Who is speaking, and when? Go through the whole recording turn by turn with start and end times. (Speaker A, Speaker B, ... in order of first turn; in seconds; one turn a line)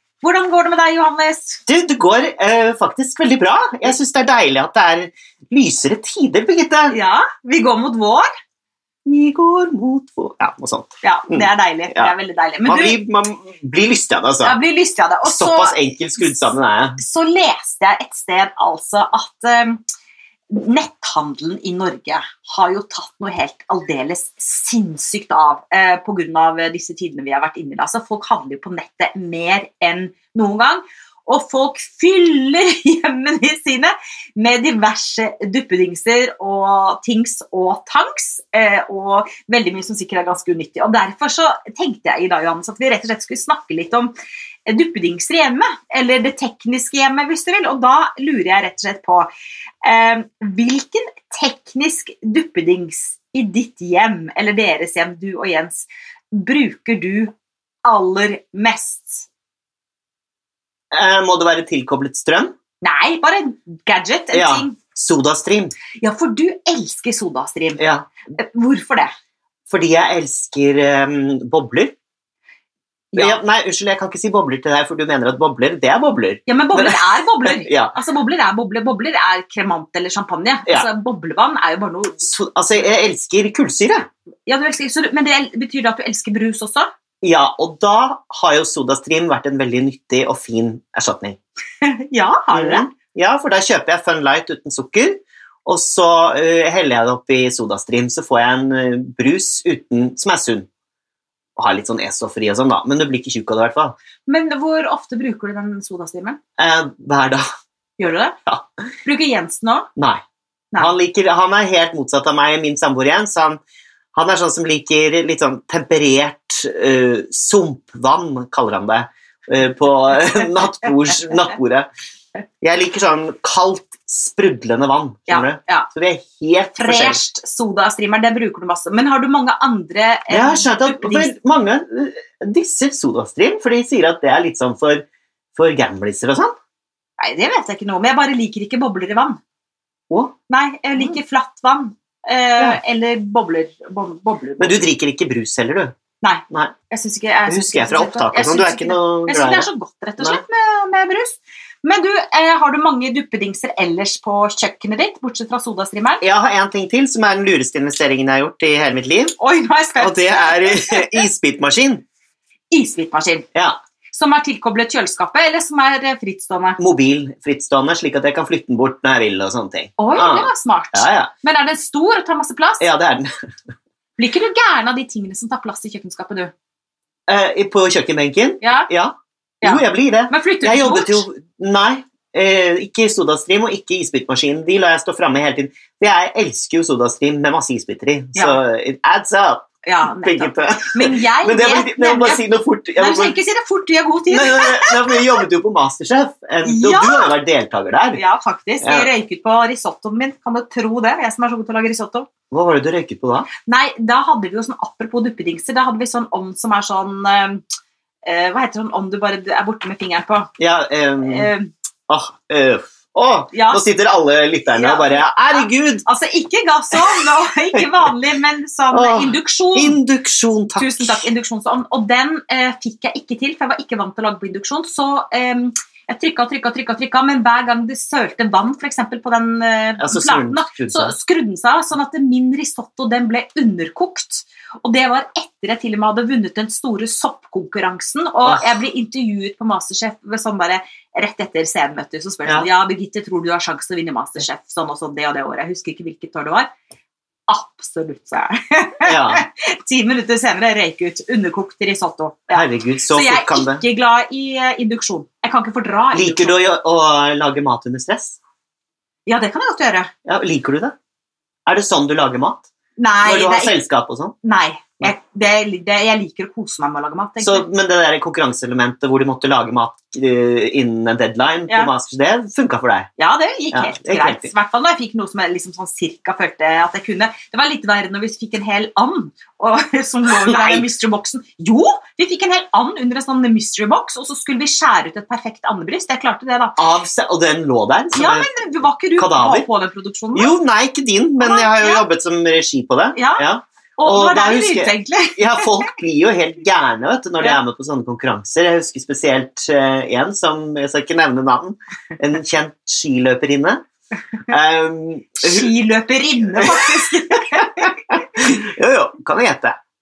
Speaker A: 0.2-1.6
Speaker B: 1.7-7.0
Speaker A: 6.9-8.3
Speaker B: 9.0-12.1
Speaker A: 11.0-13.0
Speaker B: 12.6-14.6
Speaker A: 14.4-15.8
Speaker B: 15.2-17.0
Speaker A: 17.0-19.8
Speaker A: 20.5-44.1
Speaker A: 44.7-49.3
Speaker A: 49.8-57.3
Speaker A: 57.8-59.3
Speaker B: 60.9-62.5
Speaker A: 62.8-64.8
Speaker B: 64.3-65.7
Speaker A: 65.9-67.8
Speaker B: 67.8-68.1
Speaker A: 68.3-69.1
Speaker B: 69.7-71.9
Speaker A: 73.1-73.4
Speaker B: 73.2-77.9
Speaker A: 76.5-82.3
Speaker B: 82.2-84.1
Speaker A: 84.5-86.9
Speaker B: 87.2-91.4
Speaker A: 91.8-92.9
Speaker B: 92.5-100.7
Speaker B: 101.6-103.9
Speaker A: 104.3-106.4
Speaker B: 106.6-107.5
Speaker A: 108.0-108.3
Speaker A: 109.0-109.9
Speaker B: 110.0-110.2
Speaker B: 110.8-113.6
Speaker B: 114.1-121.9
Speaker B: 122.6-127.2
Speaker A: 125.3-125.9
Speaker A: 126.8-131.3
Speaker B: 130.3-136.6
Speaker A: 137.2-139.4
Speaker A: 140.5-144.9
Speaker B: 144.6-145.9
Speaker A: 146.2-156.2
Speaker B: 146.5-146.7
Speaker B: 147.5-150.4
Speaker B: 156.2-159.3
Speaker A: 159.4-161.2
Speaker B: 160.0-162.0
Speaker A: 162.7-163.4
Speaker B: 163.5-163.8
Speaker A: 164.1-166.8
Speaker B: 166.8-171.3
Speaker A: 170.0-172.8
Speaker B: 172.8-173.3
Speaker A: 174.2-176.5
Speaker B: 177.3-193.3
Speaker A: 178.6-178.9
Speaker A: 179.6-181.2
Speaker A: 188.3-188.6
Speaker A: 189.8-192.4
Speaker A: 192.9-195.3
Speaker B: 194.3-198.2
Speaker A: 196.6-197.3
Speaker A: 198.1-202.3
Speaker B: 198.8-199.1
Speaker B: 202.5-203.5
Speaker A: 203.7-207.6
Speaker A: 208.2-210.5
Speaker B: 210.6-211.5
Speaker A: 211.2-211.7
Speaker B: 212.1-216.0
Speaker A: 213.5-213.8
Speaker A: 214.8-220.0
Speaker B: 218.9-221.2
Speaker A: 220.8-246.7
Speaker B: 230.0-231.1
Speaker B: 238.4-238.7
Speaker A: 247.5-256.6
Speaker B: 249.0-249.4
Speaker B: 252.5-253.8
Speaker B: 256.1-258.4
Speaker A: 259.3-260.1
Speaker B: 260.2-260.9
Speaker B: 261.6-262.7
Speaker A: 263.0-263.7
Speaker B: 263.2-264.3
Speaker A: 264.4-267.6
Speaker B: 267.4-273.1
Speaker A: 273.2-286.8
Speaker B: 273.7-274.5
Speaker B: 280.4-280.9
Speaker B: 286.8-288.6
Speaker A: 288.1-290.5
Speaker B: 289.1-289.7
Speaker B: 290.3-303.8
Speaker A: 291.4-292.0
Speaker A: 293.1-293.4
Speaker A: 294.0-295.9
Speaker B: 304.5-305.7
Speaker A: 305.4-308.2
Speaker B: 306.4-309.8